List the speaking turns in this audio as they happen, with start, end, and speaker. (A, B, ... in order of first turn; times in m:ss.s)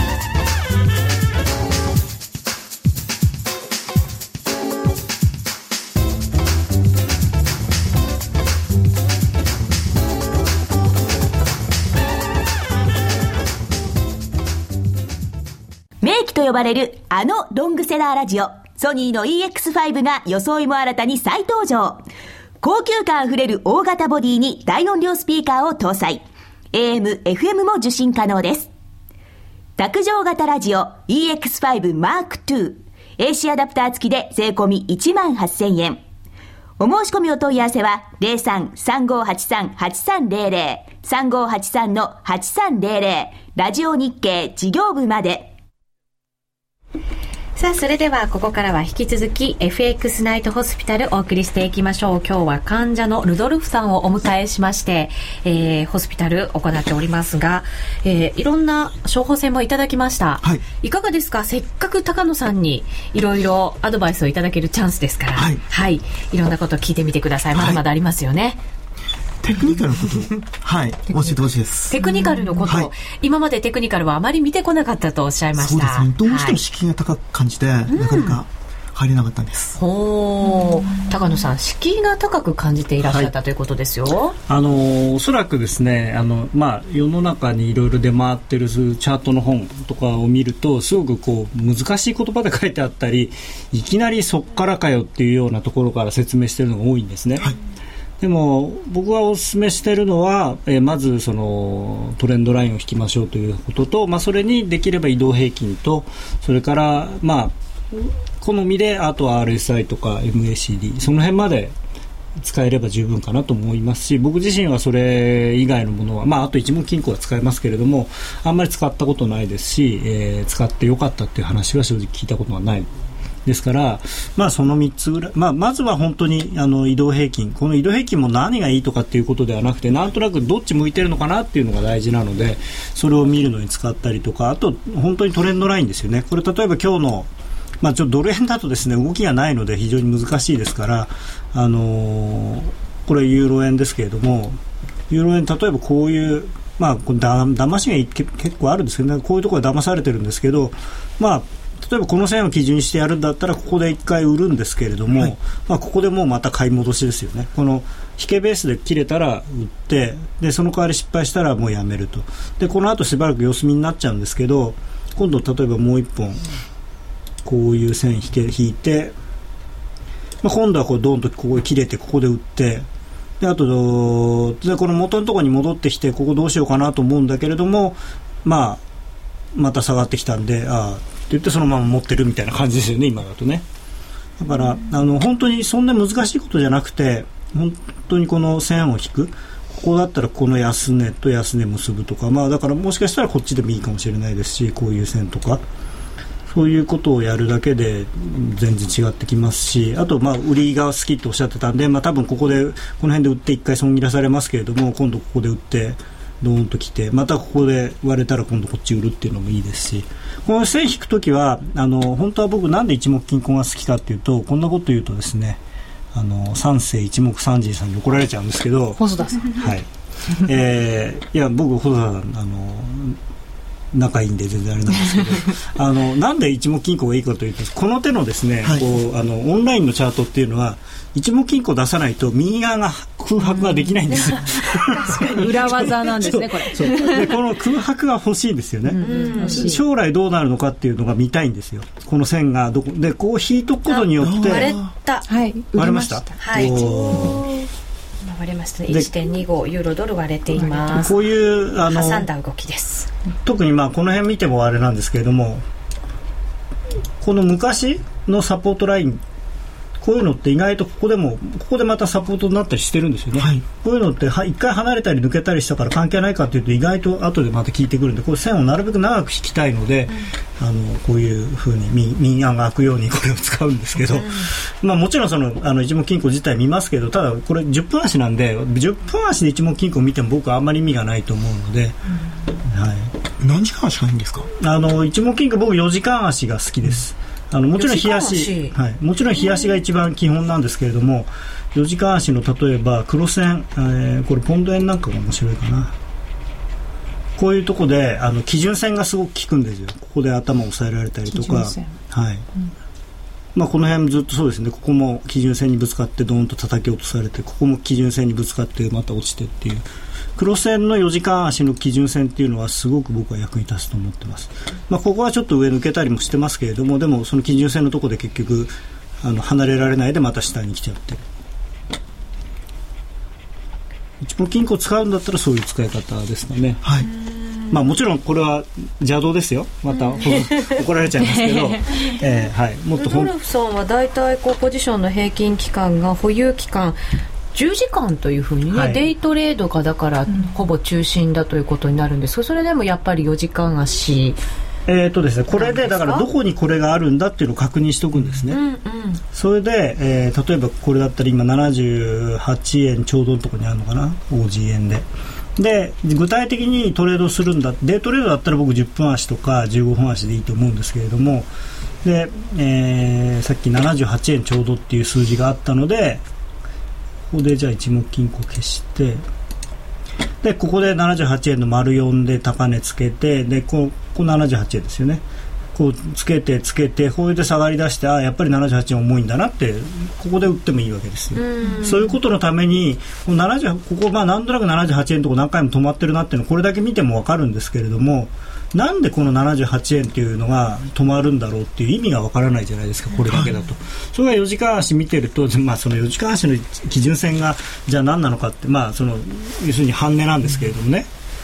0:16.0-0:22.0 A
0:22.6-0:28.7 A
0:29.8-0:36.0 A
0:36.8-0:45.5 A
0:47.6-1:08.6 B
1:05.4-1:05.6 C
1:07.5-1:07.8 C
1:09.4-1:12.0 C
1:11.1-1:11.4 D
1:11.9-1:16.6 B
1:12.0-1:12.7 D
1:15.6-1:19.8 C
1:17.9-1:18.4 B
1:19.8-1:24.4 B
1:23.0-1:23.3 E
1:24.5-1:37.5 E
1:38.2-1:51.8 E
1:52.4-2:02.9 E
2:03.4-2:17.3 E
2:17.8-2:24.6 E
2:25.1-2:46.4 E
2:47.4-2:49.1 E
2:50.4-2:52.8 E
2:53.4-2:58.8 E
2:59.5-3:03.6 E
3:04.4-3:15.6 E
3:16.5-3:35.6 E
3:36.1-3:39.8 E
3:39.0-3:39.6 D
3:40.4-3:43.2 E
3:43.9-4:04.7 E
3:54.1-3:57.4 D
3:58.9-3:59.8 D
3:59.0-3:59.7 B
4:03.9-4:05.3 B
4:04.2-4:04.9 C
4:05.3-4:07.4 D
4:05.7-4:07.4 E
4:06.4-4:07.1 B
4:08.2-4:13.1 B
4:10.5-4:11.0 D
4:11.0-4:12.3 E
4:13.4-4:15.6 E
4:17.2-4:19.2 E
4:20.0-4:42.0 E
4:23.4-4:23.6 C
4:34.1-4:34.5 B
4:42.6-4:43.1 E
4:43.4-4:44.5 C
4:44.6-4:55.9 E
4:47.8-4:48.7 B
4:57.4-5:02.4 E
5:01.3-5:02.0 D
5:03.5-5:09.8 E
5:10.4-5:21.2 E
5:24.2-5:26.8 E
5:26.8-5:27.1 C
5:27.0-5:27.7 B
5:27.7-5:33.3 E
5:29.9-5:30.8 B
5:31.3-5:32.0 B
5:33.0-5:37.0 B
5:37.5-5:44.4 B
5:38.7-5:39.0 E
5:40.3-5:40.5 D
5:44.8-5:48.6 E
5:45.5-5:46.2 B
5:48.5-5:49.2 B
5:49.3-5:55.0 E
5:55.6-6:01.5 E
6:02.0-6:06.2 E
6:07.3-6:09.2 E
6:10.4-6:15.2 E
6:15.7-6:41.1 E
6:21.3-6:22.2 B
6:33.3-6:33.5 C